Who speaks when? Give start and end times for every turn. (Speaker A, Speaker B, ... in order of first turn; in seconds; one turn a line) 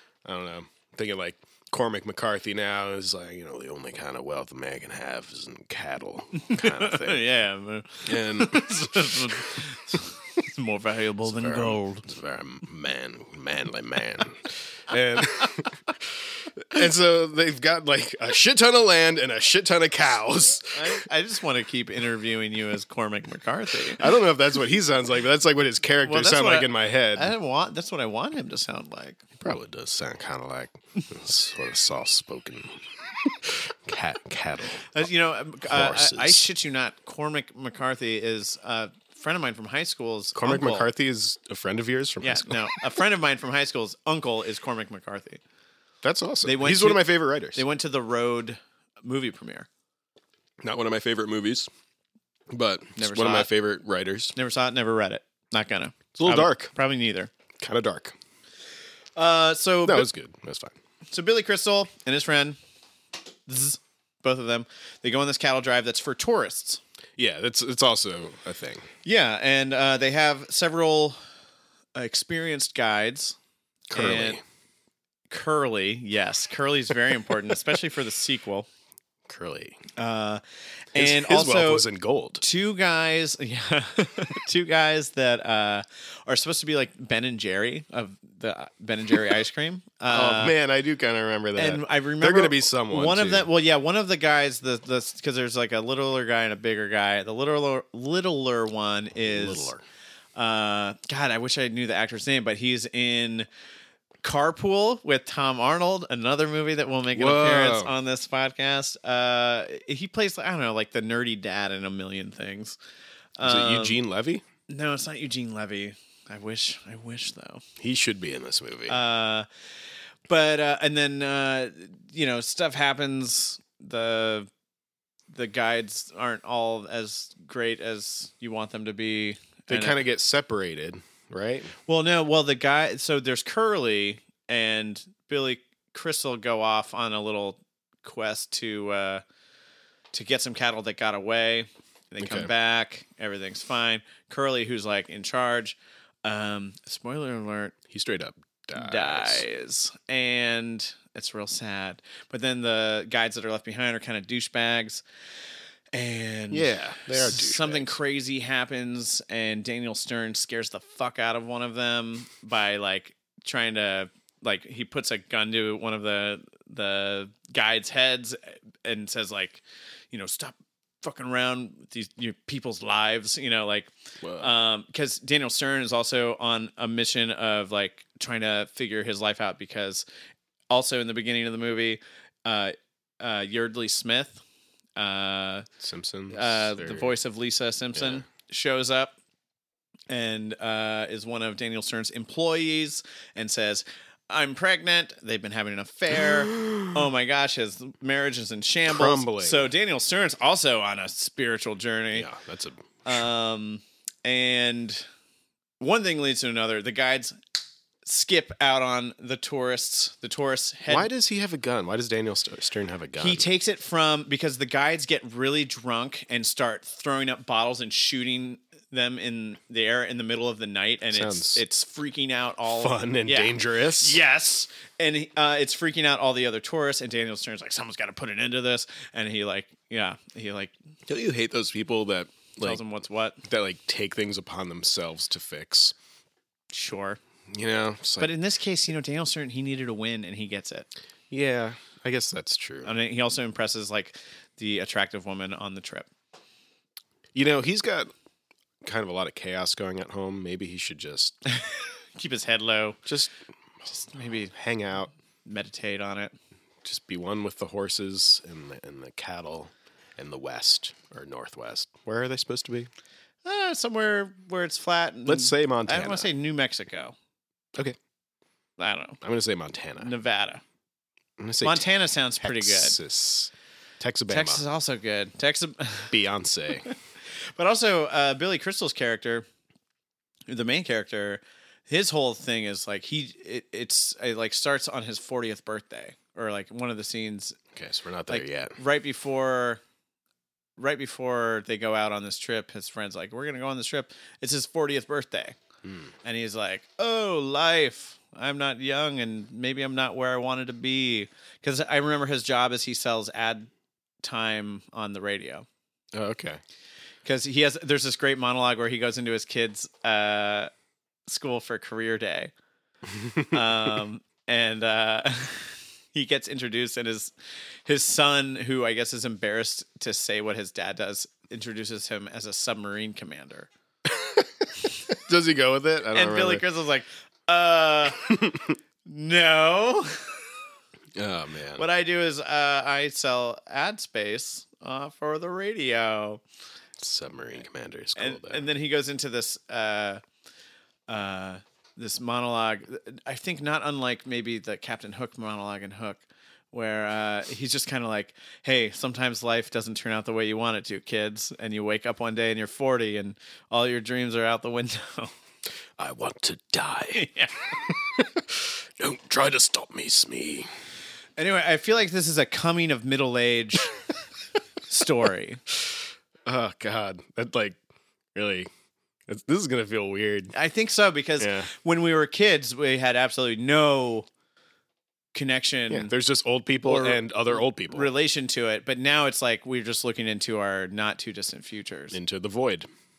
Speaker A: 0.2-7.2
Speaker B: 6.4-12.1
Speaker A: 8.0-9.6
Speaker A: 11.2-21.0
Speaker B: 20.7-24.1
Speaker A: 24.0-27.3
Speaker B: 26.0-29.2
Speaker A: 29.4-35.0
Speaker B: 34.9-40.9
Speaker A: 35.6-36.5
Speaker A: 40.4-42.6
Speaker B: 42.2-45.4
Speaker A: 46.0-47.6
Speaker B: 46.4-49.7
Speaker A: 50.6-51.7
Speaker A: 52.5-54.3
Speaker B: 53.0-53.5
Speaker B: 54.4-57.3
Speaker A: 56.1-56.7
Speaker A: 57.6-58.1
Speaker B: 59.1-60.1
Speaker A: 59.9-60.8
Speaker B: 61.1-62.6
Speaker B: 63.5-66.8
Speaker A: 67.2-68.9
Speaker B: 69.0-71.2
Speaker B: 72.0-73.4
Speaker A: 73.9-74.4
Speaker B: 73.9-74.4
Speaker B: 75.3-78.7
Speaker A: 79.3-79.8
Speaker B: 80.0-81.9
Speaker A: 81.0-82.4
Speaker B: 82.4-90.5
Speaker A: 90.1-93.5
Speaker B: 91.5-99.7
Speaker A: 99.2-99.8
Speaker B: 100.3-103.5
Speaker B: 104.2-112.8
Speaker A: 107.1-107.9
Speaker B: 113.4-114.0
Speaker A: 113.4-114.4
Speaker B: 114.7-117.6
Speaker A: 117.8-119.0
Speaker B: 118.9-119.5
Speaker B: 120.3-124.5
Speaker B: 125.3-130.0
Speaker A: 129.7-131.7
Speaker B: 131.9-139.2
Speaker B: 140.1-147.8
Speaker A: 142.2-142.5
Speaker A: 147.9-149.4
Speaker B: 148.8-155.0
Speaker B: 155.9-180.0
Speaker A: 156.5-158.0
Speaker A: 174.2-174.5
Speaker B: 180.7-184.4
Speaker B: 185.0-185.7
Speaker A: 185.8-187.1
Speaker B: 186.3-189.1
Speaker A: 187.9-188.2
Speaker B: 190.1-202.3
Speaker A: 196.5-197.0
Speaker A: 198.9-199.7
Speaker A: 202.1-203.2
Speaker B: 203.0-205.1
Speaker B: 205.8-207.4
Speaker B: 208.0-211.1
Speaker A: 210.9-213.5
Speaker B: 213.2-230.7
Speaker A: 221.1-221.6
Speaker A: 222.7-224.2
Speaker A: 231.1-232.8
Speaker B: 232.6-233.4
Speaker A: 233.4-235.9
Speaker B: 236.7-237.2
Speaker A: 237.5-238.3
Speaker B: 238.2-240.9
Speaker A: 241.3-242.9
Speaker B: 242.8-246.1
Speaker A: 247.3-248.1
Speaker A: 248.8-251.4
Speaker B: 251.5-253.0
Speaker A: 253.1-253.3
Speaker B: 253.9-254.5
Speaker A: 254.5-255.1
Speaker B: 255.4-256.4
Speaker A: 256.8-262.9
Speaker B: 263.4-267.1
Speaker A: 265.2-266.3
Speaker B: 268.8-269.2
Speaker A: 269.2-270.1
Speaker B: 270.0-270.6
Speaker A: 271.4-271.9
Speaker B: 271.6-273.0
Speaker A: 272.4-274.6
Speaker B: 274.3-276.1
Speaker A: 276.1-276.9
Speaker B: 276.9-279.5
Speaker B: 280.5-287.6
Speaker A: 287.7-288.8
Speaker B: 288.3-289.8
Speaker B: 290.8-295.6
Speaker A: 295.8-296.1
Speaker B: 296.2-303.7
Speaker B: 304.2-305.6
Speaker A: 306.1-306.6
Speaker B: 307.2-310.7
Speaker B: 311.3-312.5
Speaker A: 313.1-313.6
Speaker B: 313.5-317.3
Speaker B: 317.9-323.7
Speaker A: 324.1-326.6
Speaker B: 326.1-328.2
Speaker A: 328.2-328.8
Speaker B: 329.0-330.4
Speaker A: 331.1-331.8
Speaker B: 331.8-336.4
Speaker A: 337.0-338.6
Speaker B: 338.1-340.2
Speaker B: 341.1-355.3
Speaker A: 356.0-357.3
Speaker B: 357.1-357.7
Speaker A: 357.8-360.7
Speaker B: 361.4-363.9
Speaker B: 364.9-365.6
Speaker A: 366.4-367.8
Speaker A: 368.4-368.7
Speaker A: 369.3-370.5
Speaker B: 370.5-374.3
Speaker A: 371.4-371.7
Speaker B: 375.3-376.1
Speaker A: 375.9-378.1
Speaker B: 376.8-382.2
Speaker A: 382.1-382.9